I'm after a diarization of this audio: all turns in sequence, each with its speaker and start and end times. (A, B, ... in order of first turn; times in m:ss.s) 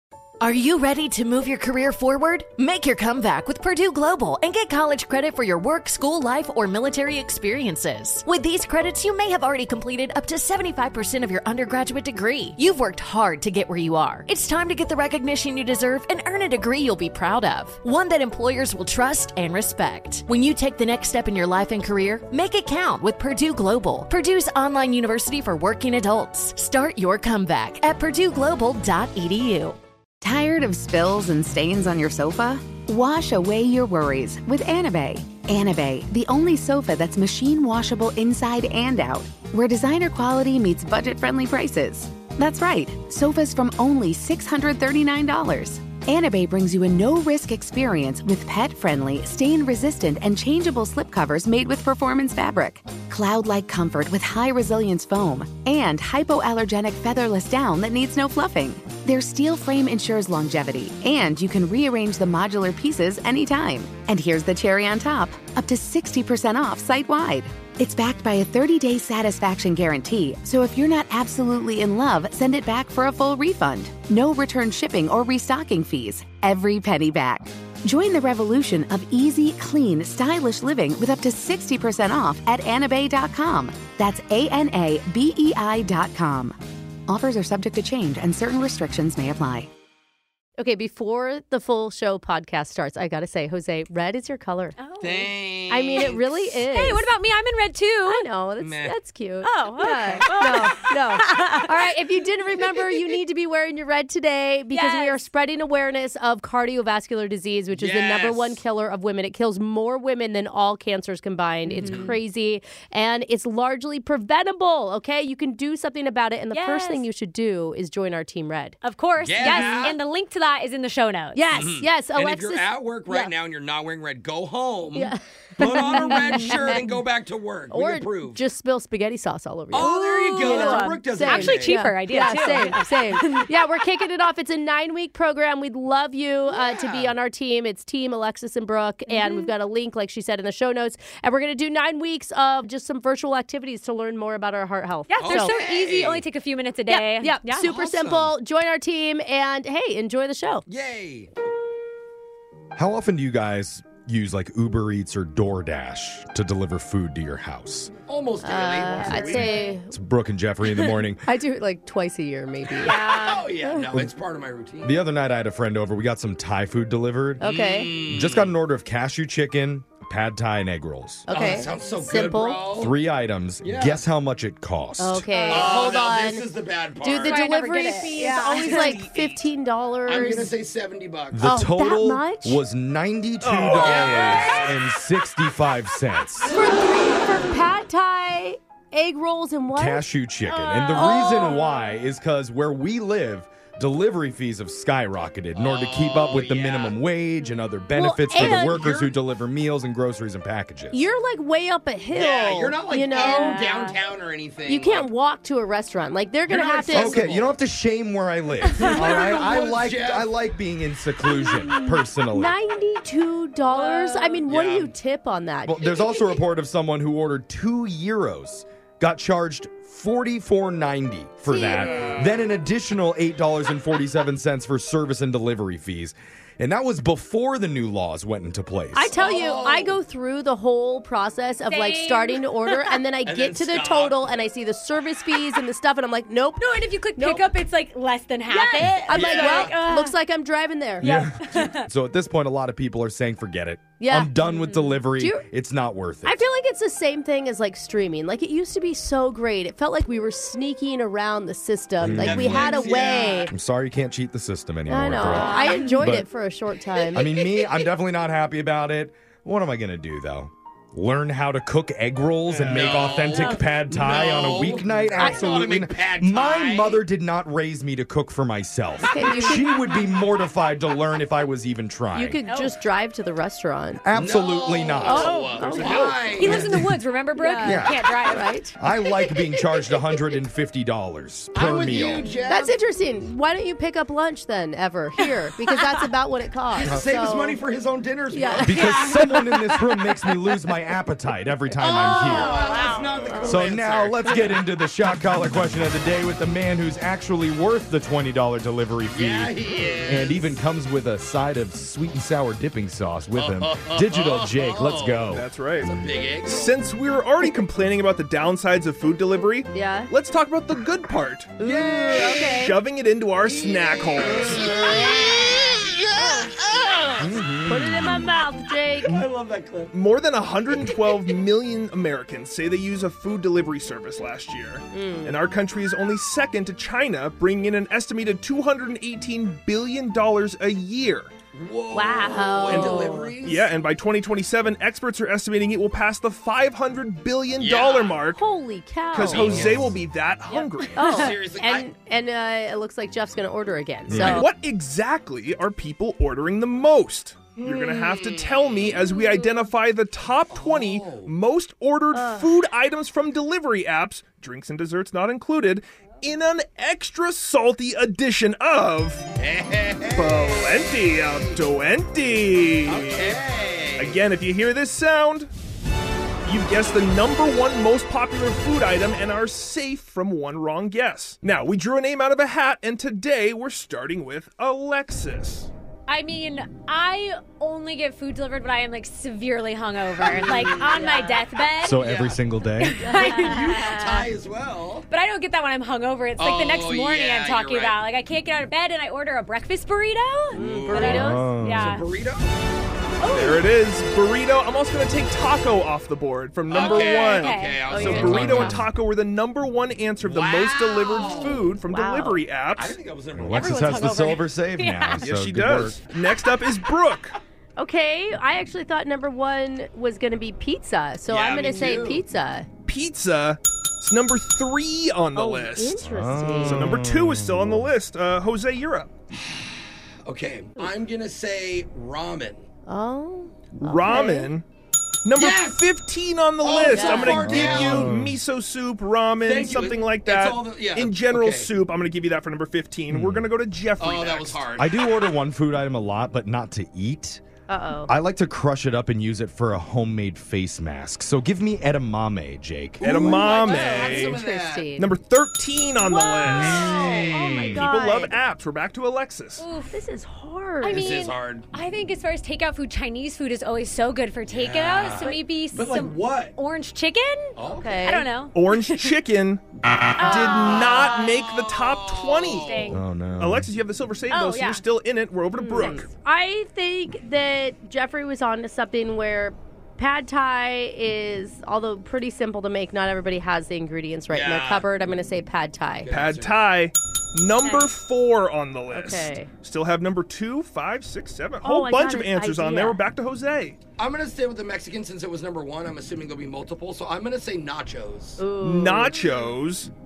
0:00.4-0:29.8 A
0:30.2-1:29.7 B
1:30.6-1:34.8 C
1:34.8-1:35.3 D
1:35.0-1:36.4 E
1:35.7-1:37.1 C
1:36.7-1:38.2 D
1:38.0-1:58.8 C
1:38.6-1:39.0 E
1:39.4-1:41.6 D
1:44.7-1:45.2 D
1:47.7-1:48.6 E
1:51.8-1:52.1 D
1:51.8-1:52.1 E
1:56.5-1:57.0 D
1:58.8-2:01.4 D
1:59.2-2:00.0 E
1:59.4-1:59.9 C
2:01.3-2:02.8 C
2:01.5-2:08.4 E
2:04.9-2:06.8 C
2:05.9-2:06.8 D
2:07.7-2:25.6 C
2:09.7-2:11.8 E
2:09.7-2:13.8 D
2:16.5-2:17.1 E
2:19.1-2:19.5 D
2:25.1-2:27.6 D
2:25.2-2:26.2 E
2:26.9-2:30.6 C
2:27.6-2:28.3 E
2:30.7-2:31.3 E
2:32.7-2:37.9 F
2:38.1-2:39.6 E
2:38.4-2:39.9 C
2:39.2-2:41.2 F
2:41.2-2:43.0 C
2:42.7-2:44.9 E
2:42.8-2:43.5 D
2:44.8-2:51.5 F
2:47.4-2:48.0 C
2:47.4-2:48.5 E
2:51.3-2:52.7 C
2:51.3-2:52.9 E
2:52.8-2:55.3 F
2:53.6-2:54.0 E
2:55.0-2:56.5 C
2:55.3-2:55.8 D
2:55.5-2:57.4 E
2:57.0-3:00.5 C
2:57.2-2:59.0 D
2:59.0-2:59.4 G
3:00.1-3:01.5 E
3:01.3-3:06.5 F
3:01.4-3:02.6 C
3:03.4-3:04.4 G
3:03.7-3:04.7 E
3:06.5-3:10.0 C
3:09.7-3:21.0 F
3:10.6-3:11.6 C
3:15.6-3:16.9 E
3:17.9-3:19.1 C
3:20.9-3:24.0 C
3:22.1-3:25.1 E
3:23.1-3:23.8 D
3:24.6-3:27.2 C
3:26.5-3:27.6 E
3:26.9-3:32.6 F
3:28.8-3:30.3 E
3:31.5-3:36.0 C
3:33.7-3:34.4 D
3:34.5-3:34.9 E
3:35.6-3:49.1 F
3:41.5-3:42.1 C
3:41.6-3:42.4 E
3:48.9-3:57.4 C
3:49.1-3:50.0 E
3:51.6-3:52.9 D
3:53.2-3:54.3 E
3:56.6-4:00.1 D
3:58.5-4:01.1 C
3:59.1-3:59.7 E
4:01.0-4:06.4 F
4:01.0-4:01.9 D
4:04.0-4:04.3 C
4:04.5-4:04.9 D
4:05.1-4:05.4 C
4:06.2-4:13.5 C
4:12.0-4:12.9 F
4:12.0-4:13.5 E
4:13.5-4:16.2 F
4:14.9-4:17.3 C
4:15.3-4:15.9 D
4:17.1-4:32.4 F
4:22.5-4:27.0 E
4:29.0-4:29.7 C
4:32.1-4:34.0 C
4:32.5-4:32.7 D
4:34.0-4:35.3 F
4:34.1-4:36.8 E
4:35.0-4:36.7 C
4:35.3-4:38.6 D
4:37.4-4:38.7 C
4:37.6-4:38.1 F
4:38.8-4:42.3 F
4:39.3-4:39.6 C
4:41.5-4:42.8 E
4:42.5-4:47.6 C
4:46.7-4:49.0 E
4:46.8-4:47.1 F
4:48.3-4:49.1 C
4:48.6-4:52.5 F
4:51.8-4:54.4 E
4:51.9-4:53.6 C
4:52.2-4:53.3 D
4:53.4-5:05.4 F
4:59.1-5:00.5 E
5:03.4-5:06.8 E
5:05.3-5:05.9 G
5:06.4-5:11.6 G
5:09.7-5:10.1 C
5:11.6-5:12.8 C
5:11.6-5:12.5 E
5:12.2-5:14.7 G
5:13.4-5:17.3 E
5:14.6-5:15.4 C
5:16.2-5:16.5 C
5:17.2-5:18.3 F
5:17.6-5:19.2 C
5:19.0-5:19.9 E
5:19.9-5:31.3 G
5:24.9-5:25.4 C
5:31.5-5:33.8 E
5:31.9-5:33.3 C
5:32.6-5:38.4 G
5:37.6-5:38.2 E
5:38.3-5:39.6 C
5:39.1-5:41.2 G
5:39.2-5:40.0 E
5:40.5-5:40.9 D
5:40.9-5:44.5 C
5:41.0-5:41.9 E
5:44.1-5:44.5 F
5:44.2-5:59.2 G
5:47.6-5:49.1 E
5:50.5-5:51.3 E
5:52.1-5:52.4 C
5:59.4-6:01.6 E
6:00.1-6:03.4 G
6:02.9-6:04.2 E
6:04.0-6:05.5 G
6:06.4-6:15.7 G
6:16.1-6:22.0 D
6:20.2-6:20.5 E
6:20.8-6:21.4 C
6:21.8-6:23.2 F
6:22.0-6:22.4 E
6:22.8-6:24.3 D
6:23.0-6:23.5 C
6:23.3-6:25.1 E
6:25.1-6:32.0 D
6:26.4-6:28.0 E
6:30.5-6:31.4 C
6:30.5-6:32.5 E
6:31.1-6:32.0 F
6:33.2-6:33.6 D
6:33.3-6:43.0 G
6:36.7-6:38.9 E
6:36.7-6:38.1 D
6:37.9-6:38.7 C
6:38.4-6:38.8 F
6:40.2-6:41.8 E
6:41.4-6:42.4 C
6:42.7-6:44.4 E
6:43.3-6:46.0 F
6:43.5-6:45.2 D
6:45.2-6:47.3 G
6:47.8-6:52.7 C
6:51.3-6:52.2 E
6:52.8-6:56.0 G
6:55.3-6:56.9 C
6:56.0-6:57.9 F
6:56.6-6:59.1 G
7:00.2-7:02.7 E
7:02.9-7:04.5 C
7:03.8-7:04.6 G
7:05.2-7:14.7 G
7:05.3-7:05.8 E
7:06.6-7:08.2 E
7:06.9-7:07.5 C
7:07.4-7:08.4 F
7:09.4-7:11.7 E
7:13.1-7:13.5 F
7:14.0-7:15.1 E
7:14.8-7:17.4 F
7:17.7-7:18.1 C
7:18.1-7:23.3 F
7:23.0-7:25.0 E
7:23.0-7:24.4 G
7:23.2-7:25.1 C
7:25.0-7:29.7 G
7:26.1-7:28.4 C
7:26.5-7:27.8 E
7:26.6-7:27.3 D
7:29.6-7:30.0 D
7:29.9-7:31.0 C
7:30.8-7:39.1 D
7:30.8-7:31.6 E
7:34.5-7:36.5 E
7:37.6-7:38.1 E
7:37.7-7:38.2 C
7:38.5-7:39.6 G
7:40.2-7:46.1 G
7:40.2-7:41.6 D
7:40.2-7:40.8 C
7:40.3-7:43.0 E
7:42.5-7:43.0 D
7:42.9-7:43.7 F
7:44.3-7:44.8 D
7:45.6-7:56.1 C
7:54.3-7:54.9 E
7:56.0-7:56.6 E
7:56.1-8:03.8 G
7:58.9-7:59.5 C
8:01.6-8:03.0 C
8:04.0-8:08.5 E
8:08.4-8:09.2 C
8:08.6-8:09.9 G